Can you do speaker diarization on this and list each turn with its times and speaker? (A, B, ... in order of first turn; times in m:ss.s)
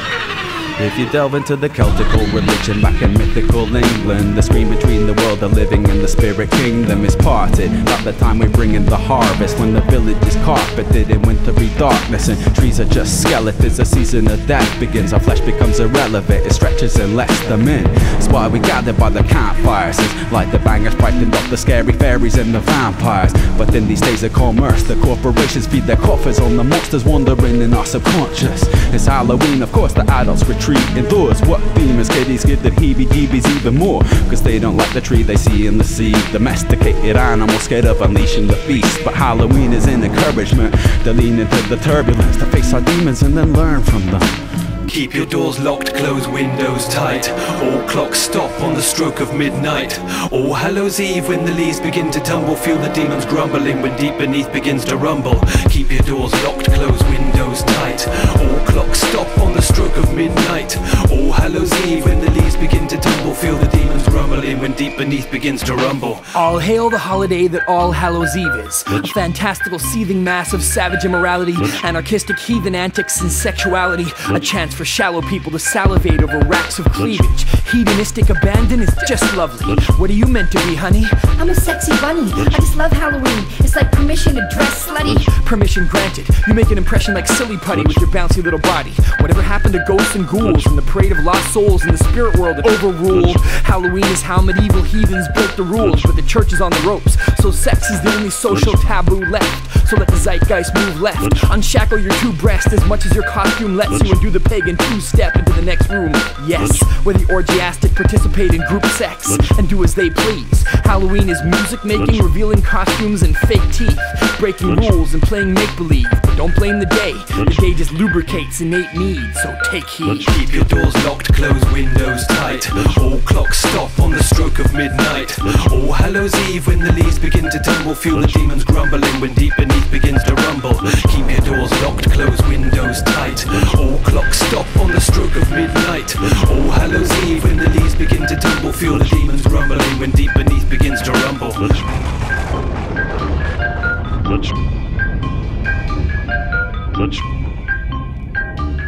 0:00.8-0:44.4 A
0:44.9-1:06.4 B
1:06.3-1:21.2 C
1:21.2-1:25.5 D
1:25.4-2:00.3 C
2:00.3-2:21.8 B